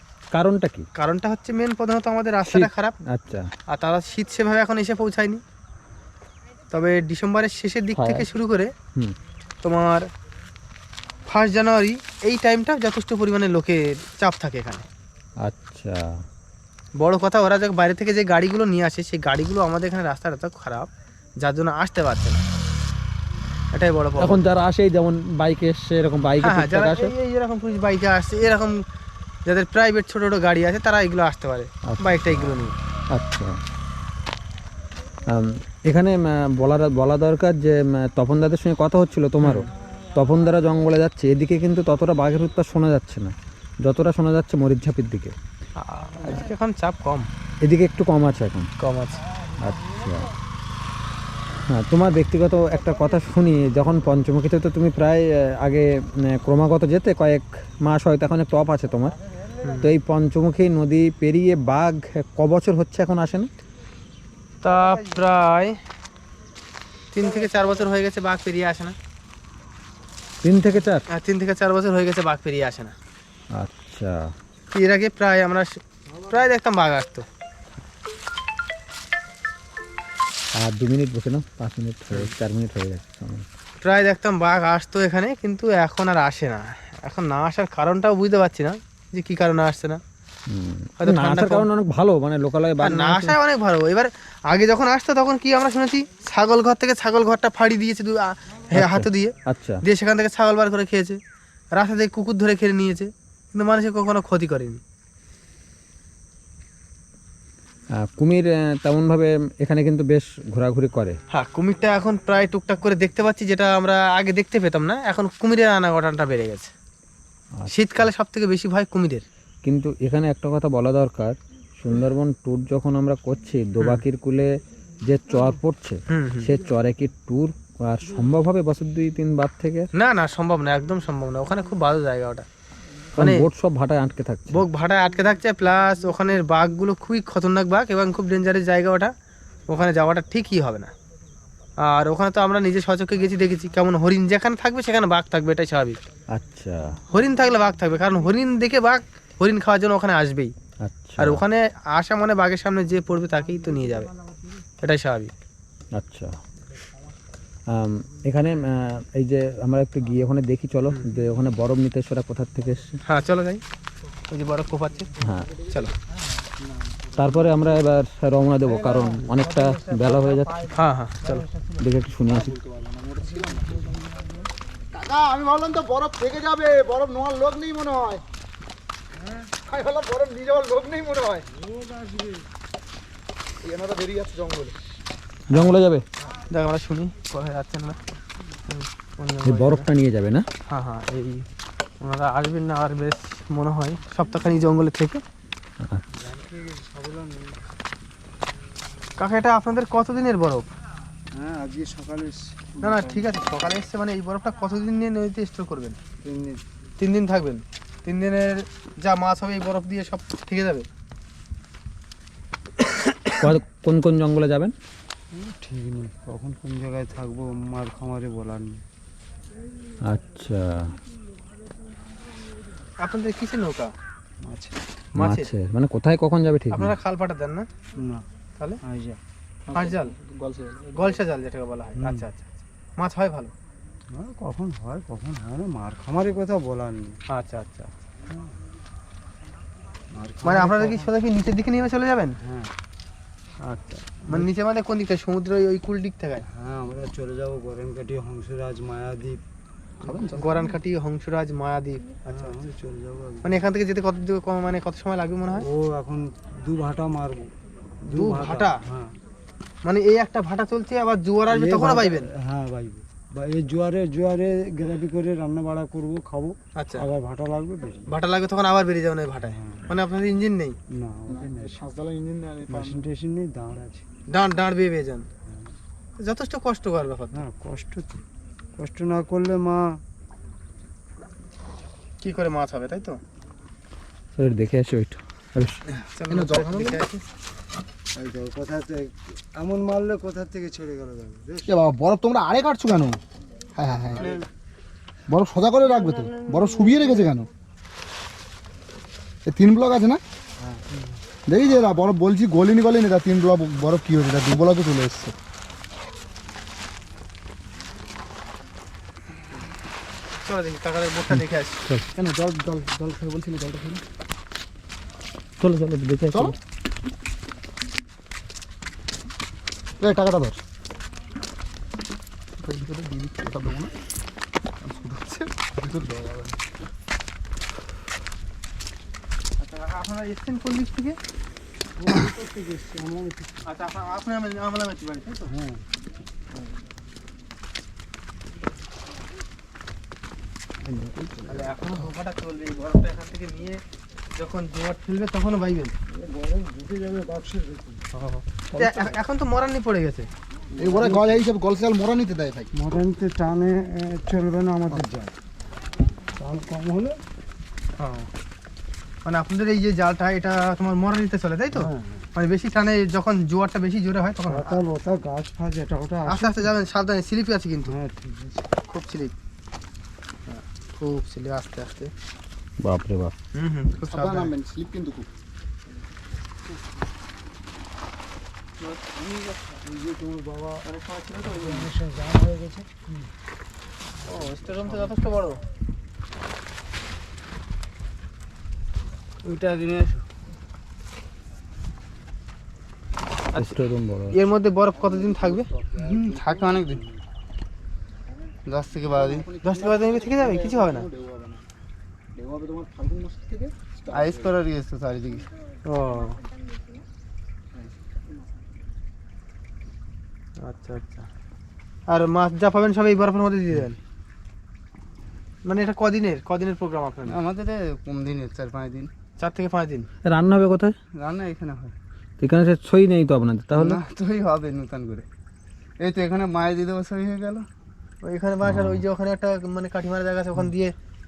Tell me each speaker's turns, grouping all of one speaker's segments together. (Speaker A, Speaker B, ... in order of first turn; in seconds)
Speaker A: 0.3-0.8, 2.4-3.5, 7.9-8.2, 15.4-16.0, 24.2-27.1, 31.9-32.6, 33.1-33.6, 35.3-43.3, 43.8-45.3, 47.6-48.7, 49.6-50.3, 51.7-59.1, 59.8-63.5, 70.4-71.0, 73.5-74.3, 80.5-83.5, 90.5-93.4, 98.7-99.8, 108.0-111.2, 117.6-118.1, 119.6-124.5, 125.1-129.9, 133.2-134.7, 146.3-147.0, 150.8-151.4, 156.0-156.3, 157.7-163.0, 165.2-165.5, 167.2-170.8, 171.8-172.5, 185.5-186.0, 189.4-190.5, 213.4-214.7, 220.1-220.9, 225.2-226.9, 284.4-285.8, 311.4-312.0, 315.6-316.5, 372.8-373.3, 393.6-394.3, 420.2-420.9, 422.4-424.0, 428.6-429.1
Speaker B: 1.0-2.9, 3.7-5.4, 6.7-8.7, 9.6-10.1, 11.3-14.8, 17.0-22.4, 23.7-24.4, 26.4-28.8, 29.5-32.8, 39.4-39.7, 45.8-47.3, 48.8-49.2, 59.6-59.9, 64.6-65.8, 67.1-69.0, 71.1-72.9, 74.7-77.3, 83.8-90.0, 91.0-91.7, 92.8-101.2, 101.7-104.8, 111.3-116.7, 117.7-119.2, 123.8-124.0, 126.1-126.5, 129.9-132.5, 133.2-133.5, 134.5-139.1, 139.7-140.9, 141.8-146.0, 147.1-150.5, 151.2-154.1, 154.8-155.3, 163.1-163.6, 164.3-165.1, 165.7-165.9, 170.7-171.5, 186.5-188.0, 188.7-189.9, 190.7-191.5, 192.0-195.2, 199.2-200.7, 202.8-206.0, 207.0-210.8, 223.0-223.9, 225.2-225.5, 226.7-227.7, 229.7-230.1, 230.9-232.5, 233.0-233.5, 237.3-237.9, 240.4-242.3, 243.6-246.4, 250.1-252.6, 253.4-255.7, 258.1-258.8, 259.8-262.3, 266.8-267.1, 268.1-270.8, 274.3-275.2, 276.2-277.4, 282.2-283.2, 286.2-287.2, 310.4-311.8, 322.6-323.9, 324.9-326.5, 329.6-331.2, 333.7-335.5, 341.5-343.8, 344.4-346.0, 348.1-350.3, 358.0-358.3, 359.2-364.8, 366.2-368.0, 368.8-369.3, 370.5-372.1, 373.5-374.5, 380.9-381.9, 384.2-385.6, 393.5-395.7, 399.6-401.1, 405.9-406.4, 410.6-411.3, 412.1-414.0, 415.6-417.4, 419.4-420.1, 428.2-430.9
Speaker C: 172.3-174.1, 174.9-178.2, 179.5-181.5, 183.6-184.7, 230.2-230.8, 271.3-273.0, 286.3-287.0, 291.6-293.2, 293.8-294.4, 295.3-297.5, 299.5-300.2, 301.5-305.3, 312.1-314.0, 320.0-320.6, 350.8-352.7, 374.1-375.3, 395.0-397.1, 399.1-401.6, 402.4-404.5
Speaker D: 181.7-182.3, 196.2-197.6, 201.3-203.3, 206.2-206.6, 215.3-218.8, 224.4-224.8, 228.0-228.2, 228.8-229.2, 234.1-237.2, 240.1-241.1, 242.4-242.7, 246.5-249.4, 250.1-250.4, 252.3-253.6, 255.6-257.5, 258.1-259.1, 261.5-268.1, 269.5-269.8, 270.9-271.7, 272.7-274.0, 277.3-278.2, 278.8-280.0, 288.1-291.7, 332.0-333.6, 335.5-335.8, 346.1-348.0, 350.9-351.4, 352.7-355.3, 356.4-357.2, 361.8-362.2, 364.5-366.7, 367.9-368.7, 379.8-380.9, 381.4-383.2
Speaker E: 389.4-390.2, 396.0-397.0, 398.7-399.5, 404.1-405.5, 417.3-419.1, 421.2-422.0, 423.8-425.3, 426.0-427.7